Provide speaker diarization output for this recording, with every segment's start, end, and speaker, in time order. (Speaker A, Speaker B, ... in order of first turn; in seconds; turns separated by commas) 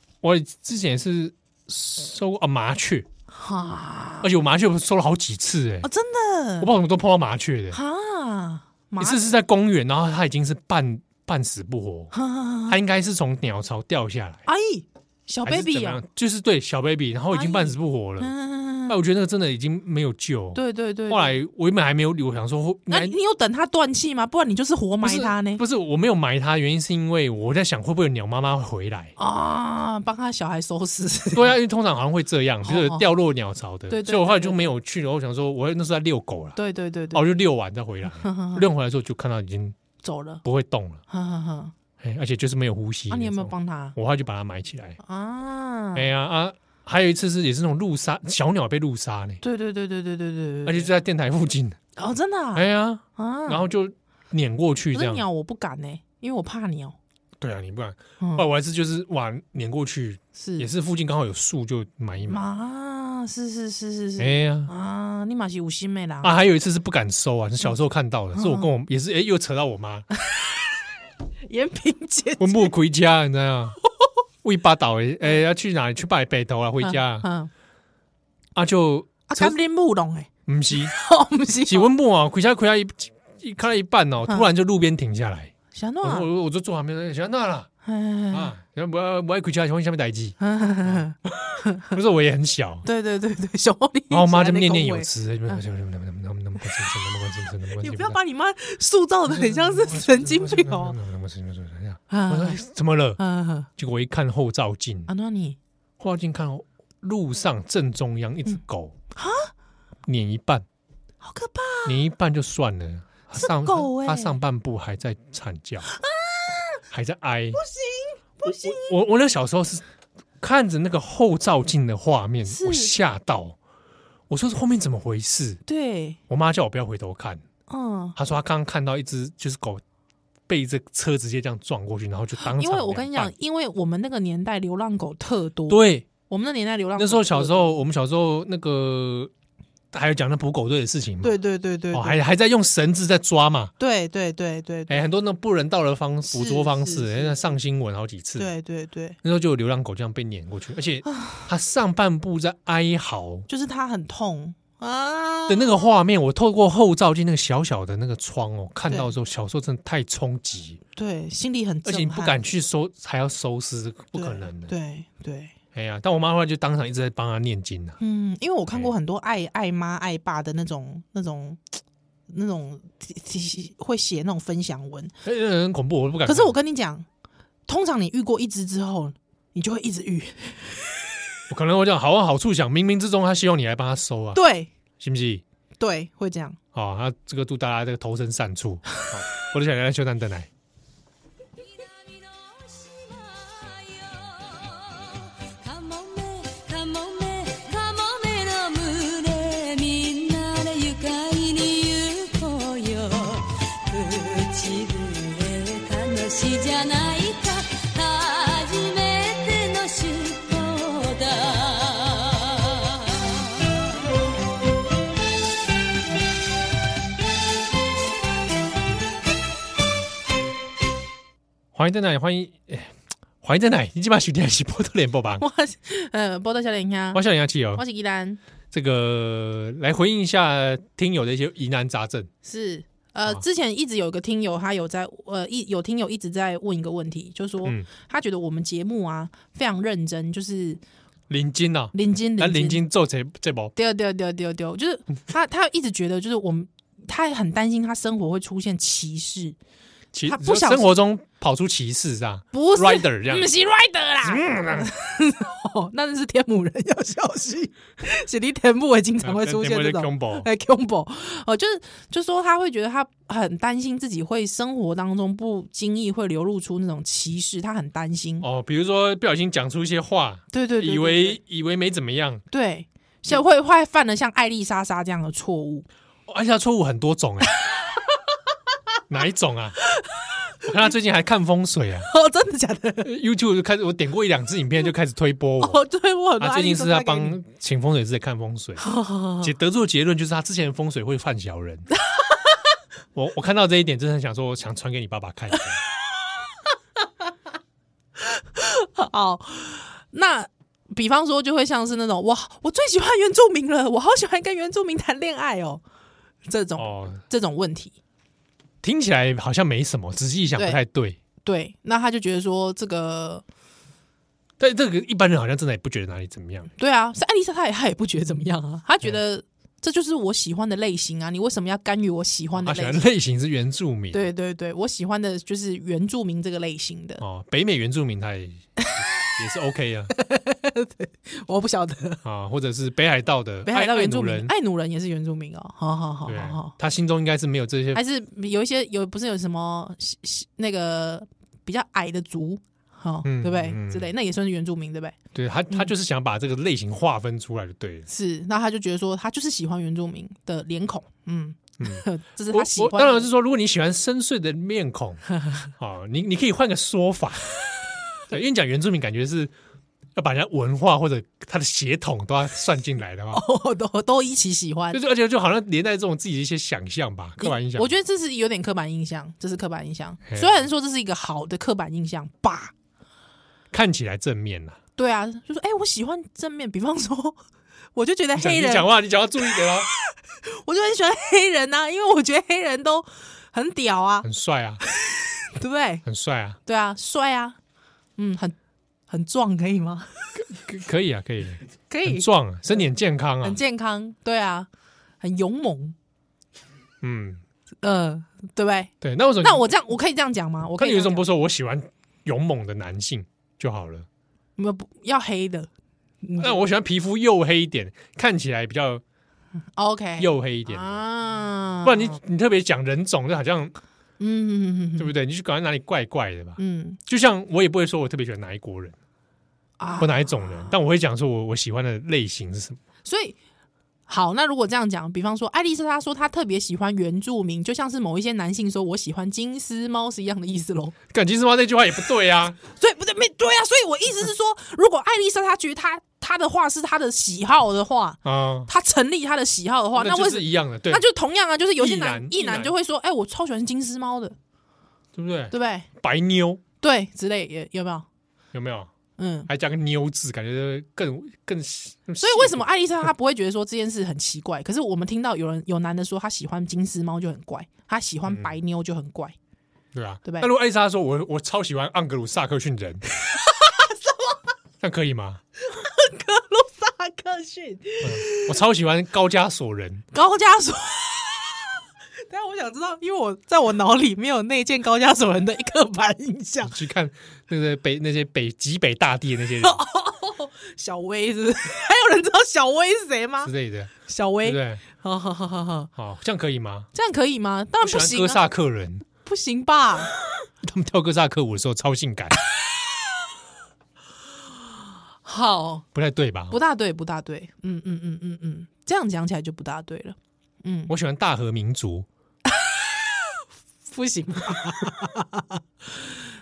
Speaker A: 0.2-3.1, Speaker B: 3.3-4.3, Speaker A: 4.2-5.9, Speaker B: 5.8-6.7, Speaker A: 6.6-7.8, Speaker B: 7.7-9.2, Speaker A: 9.0-12.1, Speaker B: 12.1-12.8, Speaker A: 12.7-14.4, Speaker B: 14.5-16.0, Speaker A: 15.4-18.3, Speaker B: 17.3-19.0, Speaker A: 18.9-23.2, Speaker B: 20.6-21.4, Speaker B: 22.9-25.6, Speaker A: 25.0-29.1, Speaker B: 29.2-31.6, Speaker A: 31.3-36.6, Speaker B: 32.6-33.0, Speaker B: 33.9-34.7, Speaker B: 36.6-37.3, Speaker A: 37.1-39.8, Speaker B: 38.1-38.7, Speaker B: 40.0-40.4, Speaker A: 40.4-41.0, Speaker B: 41.1-41.7, Speaker A: 42.0-45.0, Speaker B: 43.1-44.0, Speaker B: 45.0-46.1, Speaker A: 46.0-49.4, Speaker B: 49.4-50.9, Speaker A: 50.6-51.8, Speaker B: 52.0-52.6, Speaker A: 52.5-55.2, Speaker B: 53.2-53.6, Speaker B: 54.9-57.0, Speaker A: 57.4-62.4, Speaker B: 58.2-58.5, Speaker B: 60.4-60.7, Speaker B: 62.3-66.3, Speaker A: 64.2-64.7, Speaker A: 66.2-70.1, Speaker B: 68.3-68.7, Speaker B: 71.5-72.7, Speaker A: 72.4-73.8, Speaker A: 74.4-77.3, Speaker B: 76.8-77.5, Speaker A: 78.5-79.6, Speaker B: 79.3-81.9, Speaker A: 80.5-80.9, Speaker A: 81.7-85.5, Speaker B: 85.7-86.3, Speaker A: 86.0-87.7, Speaker B: 87.8-88.5, Speaker A: 88.3-92.8, Speaker B: 90.4-92.0, Speaker B: 92.8-95.6, Speaker A: 94.1-98.2, Speaker B: 97.8-101.0, Speaker A: 99.3-103.2, Speaker B: 102.1-102.6, Speaker B: 103.2-103.7, Speaker A: 103.8-105.1, Speaker B: 105.1-105.6, Speaker A: 106.0-108.9, Speaker B: 109.2-109.5, Speaker A: 110.1-110.7, Speaker B: 111.2-112.0, Speaker A: 111.8-115.9, Speaker B: 113.3-114.4, Speaker B: 115.9-116.8, Speaker A: 116.9-117.6, Speaker B: 117.5-118.9, Speaker A: 118.4-119.8, Speaker A: 120.4-123.6, Speaker B: 122.5-122.9, Speaker A: 124.3-125.6, Speaker B: 125.7-126.2, Speaker A: 126.3-127.4, Speaker B: 127.7-128.2, Speaker A: 128.2-129.8, Speaker A: 130.5-133.3, Speaker B: 132.4-137.8, Speaker A: 135.7-136.1, Speaker A: 137.0-139.3, Speaker A: 139.9-141.4, Speaker B: 141.2-142.2, Speaker A: 141.9-143.7, Speaker B: 143.8-145.1, Speaker A: 144.9-148.5, Speaker B: 146.3-147.4, Speaker B: 148.4-149.2, Speaker A: 149.2-153.5, Speaker B: 151.1-151.4, Speaker B: 153.5-155.9, Speaker A: 155.5-160.8, Speaker B: 161.0-162.4, Speaker A: 161.8-164.7, Speaker B: 164.1-165.5, Speaker A: 165.7-168.0, Speaker B: 168.0-171.6, Speaker B: 172.3-175.1, Speaker A: 175.2-176.6, Speaker B: 176.2-177.1, Speaker B: 177.7-180.9, Speaker A: 181.5-184.4, Speaker B: 184.3-184.7, Speaker A: 185.0-185.4, Speaker B: 185.8-186.6, Speaker A: 186.7-190.5, Speaker C: 191.7-213.7, Speaker A: 221.7-225.4, Speaker B: 225.4-228.4, Speaker A: 227.1-227.8, Speaker A: 228.7-232.3, Speaker B: 232.4-240.8, Speaker A: 241.3-243.7, Speaker B: 241.9-242.8, Speaker B: 243.8-249.6, Speaker A: 250.1-253.5, Speaker B: 250.3-250.9, Speaker B: 252.5-268.5, Speaker A: 254.2-254.9, Speaker A: 259.2-260.5, Speaker A: 268.4-272.4, Speaker B: 270.5-271.4, Speaker B: 272.5-275.9, Speaker A: 276.3-277.6, Speaker A: 279.1-279.8, Speaker B: 279.9-280.7, Speaker A: 280.6-282.1, Speaker B: 282.1-283.1, Speaker A: 283.0-285.8, Speaker B: 285.6-287.4, Speaker A: 286.4-288.8, Speaker B: 288.8-289.5, Speaker A: 289.4-291.9, Speaker B: 292.0-292.6, Speaker A: 293.1-295.8, Speaker B: 298.2-305.8, Speaker B: 306.5-308.0, Speaker A: 306.8-307.2, Speaker A: 308.8-311.2, Speaker B: 311.4-313.4, Speaker A: 314.6-316.7, Speaker B: 316.8-323.0, Speaker A: 322.6-324.3, Speaker B: 324.1-327.2, Speaker A: 327.2-330.1, Speaker B: 330.1-332.2, Speaker A: 332.2-334.5, Speaker B: 333.7-336.7, Speaker A: 336.3-338.0, Speaker B: 337.9-345.2, Speaker A: 343.2-344.1, Speaker A: 345.3-348.1, Speaker B: 348.1-353.3, Speaker A: 351.8-355.2, Speaker A: 355.8-357.6, Speaker A: 358.3-359.5, Speaker A: 360.2-363.4, Speaker B: 363.3-365.0, Speaker A: 364.9-367.9, Speaker B: 367.4-372.7, Speaker A: 370.3-370.5, Speaker A: 373.7-374.8, Speaker B: 375.0-377.4, Speaker B: 377.9-378.9, Speaker A: 378.4-379.9, Speaker B: 379.5-384.3, Speaker A: 384.2-384.8, Speaker B: 384.8-386.0, Speaker A: 386.1-386.6, Speaker B: 386.7-387.6, Speaker B: 388.2-388.6, Speaker B: 389.1-390.1, Speaker A: 390.4-393.6, Speaker B: 391.9-392.3, Speaker B: 393.4-394.7, Speaker B: 395.2-395.9, Speaker A: 397.0-397.4, Speaker B: 397.8-401.2, Speaker A: 399.0-399.6, Speaker A: 400.8-404.1, Speaker B: 404.6-405.7, Speaker B: 406.2-406.6, Speaker A: 406.4-409.0, Speaker B: 409.8-412.2, Speaker A: 410.2-411.0, Speaker A: 411.8-413.7, Speaker B: 414.2-415.1, Speaker A: 415.0-419.0, Speaker B: 416.6-417.0, Speaker B: 419.8-420.8, Speaker A: 420.0-422.8, Speaker B: 423.1-423.4, Speaker B: 424.1-430.9, Speaker A: 431.1-432.6, Speaker B: 432.7-444.4, Speaker A: 438.2-438.7, Speaker A: 440.0-441.1, Speaker A: 441.8-442.7, Speaker A: 445.2-446.6, Speaker B: 445.5-445.9, Speaker B: 446.8-448.1, Speaker A: 448.5-448.9, Speaker B: 449.2-449.5, Speaker A: 449.5-452.7, Speaker B: 452.2-459.4, Speaker A: 459.9-463.0, Speaker B: 460.2-460.5, Speaker B: 463.2-464.4, Speaker A: 464.8-465.4, Speaker B: 465.6-468.6, Speaker A: 468.0-470.1, Speaker B: 470.1-476.8, Speaker A: 476.6-479.8, Speaker B: 479.6-483.5, Speaker A: 483.4-484.8, Speaker B: 484.1-485.9, Speaker A: 486.0-486.9, Speaker B: 486.9-488.4, Speaker A: 487.8-489.1, Speaker B: 489.2-490.1, Speaker A: 490.4-492.4, Speaker B: 495.2-495.9, Speaker A: 495.9-496.6, Speaker B: 496.5-500.9, Speaker A: 500.9-502.1, Speaker B: 502.5-506.1